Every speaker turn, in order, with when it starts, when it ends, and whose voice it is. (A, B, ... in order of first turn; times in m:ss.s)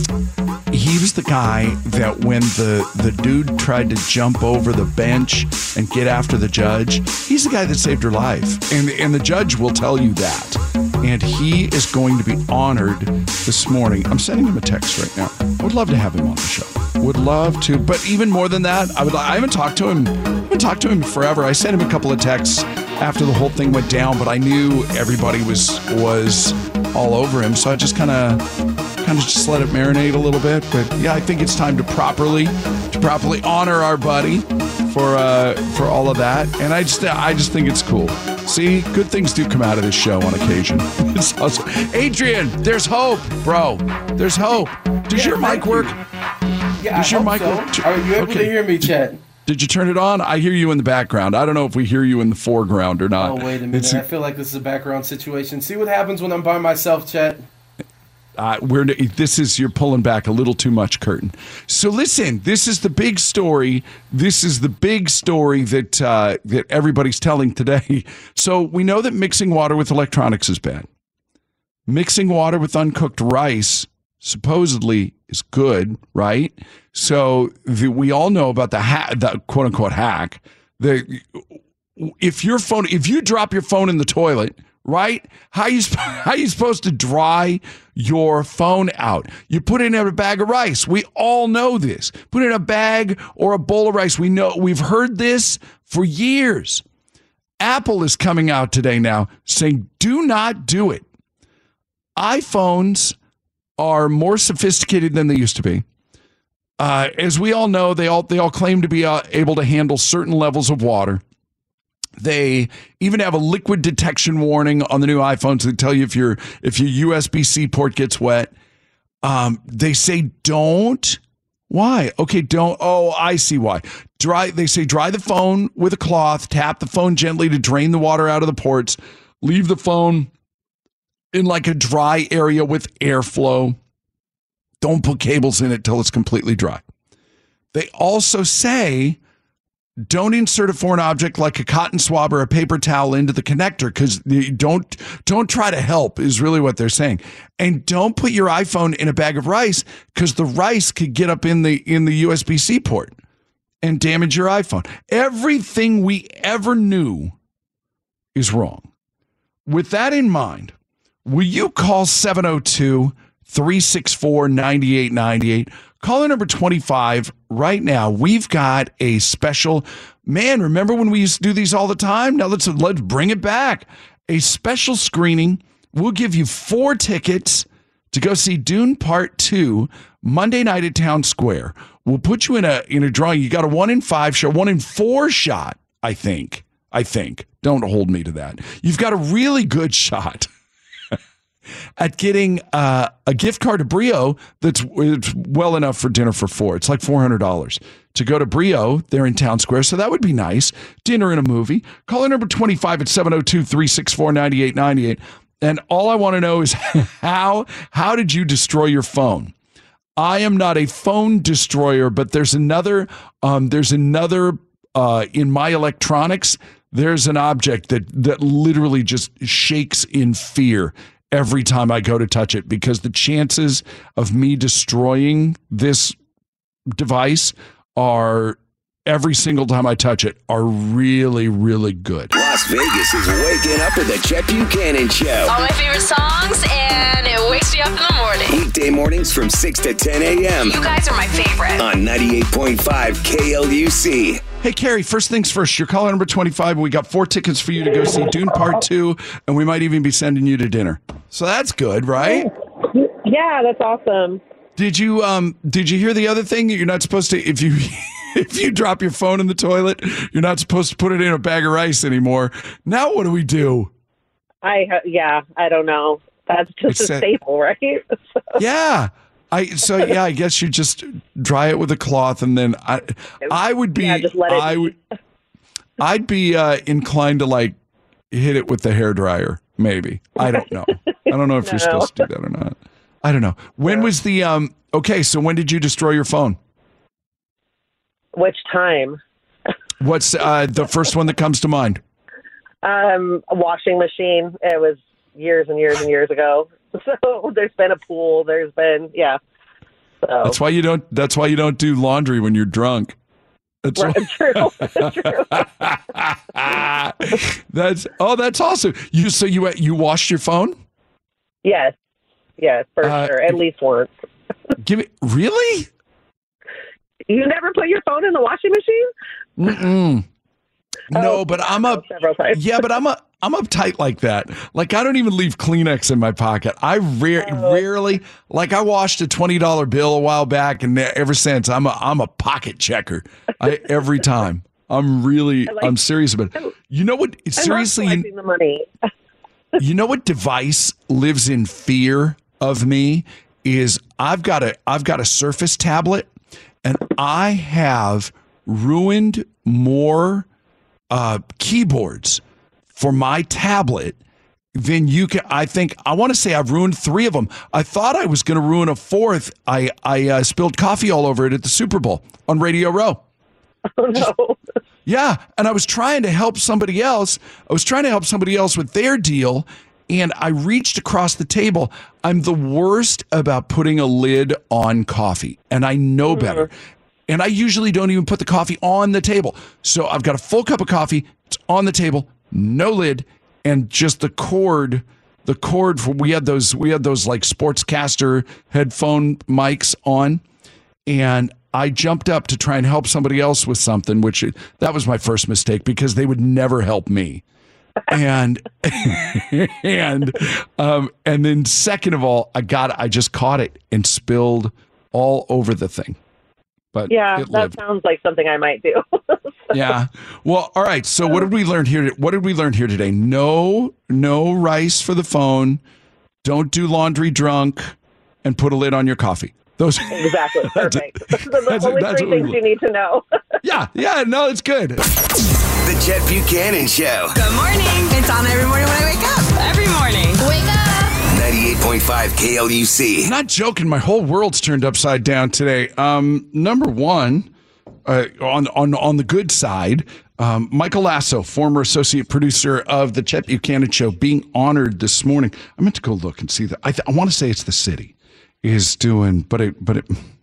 0:00.7-0:28.4 A
0:29.0-0:46.0 A
0:45.1-0:46.0 B
0:46.8-0:49.2 B
0:46.9-0:54.0 A
0:53.2-0:57.4 B
0:58.4-1:10.9 A
1:11.9-1:36.8 A
1:37.6-1:41.0 A
1:42.2-1:43.2 A
1:43.8-1:45.8 A
1:46.8-1:51.2 A
1:52.2-1:58.5 A
1:59.2-2:10.3 A
2:11.3-2:13.8 A
2:14.8-2:16.8 A
2:17.7-2:19.2 A
2:20.1-2:33.2 A
2:33.8-2:37.3 A
2:38.3-2:38.9 A
2:39.6-3:10.5 A
3:12.0-3:29.5 A
3:30.2-3:46.2 A
3:46.9-3:52.3 A
3:52.3-3:55.5 C
3:55.5-3:58.5 D
3:58.5-4:00.8 C
4:00.6-4:01.8 D
4:01.8-4:04.4 C
4:04.6-4:12.5 A
4:12.2-4:14.4 E
4:14.8-4:23.9 A
4:24.6-4:28.0 E
4:26.9-4:27.3 A
4:28.6-4:34.9 A
4:33.4-4:34.9 E
4:36.0-4:37.8 A
4:38.3-4:46.6 A
4:41.6-4:42.2 E
4:48.3-4:49.2 E
4:50.0-4:52.0 A
4:52.8-4:59.4 E
5:00.2-5:00.6 E
5:00.4-5:03.2 A
5:03.8-5:10.8 A
5:04.0-5:05.6 E
5:11.6-5:11.9 E
5:12.6-5:14.1 E
5:13.0-5:13.6 A
5:14.8-5:15.9 A
5:17.3-5:19.1 E
5:19.6-5:20.2 A
5:21.1-5:38.3 A
5:21.1-5:22.6 E
5:27.4-5:27.8 E
5:35.7-5:35.9 E
5:37.6-5:38.9 E
5:39.8-5:46.3 A
5:46.8-5:50.5 A
5:51.1-5:52.4 A
5:52.9-5:54.2 A
5:54.7-6:03.2 A
6:04.0-6:04.6 E
6:05.0-6:16.7 A
6:16.4-6:16.6 E
6:17.3-6:30.4 A
6:31.1-6:37.4 A
6:38.1-6:46.2 A
6:46.9-6:47.8 A
6:47.1-6:49.7 E
6:49.7-6:55.8 A
6:56.4-7:02.6 A
7:00.1-7:03.2 E
7:03.6-7:05.0 A
7:05.8-7:07.4 C
7:10.4-7:11.1 D
7:11.3-7:13.3 C
7:13.2-7:17.5 A
7:18.0-7:30.2 A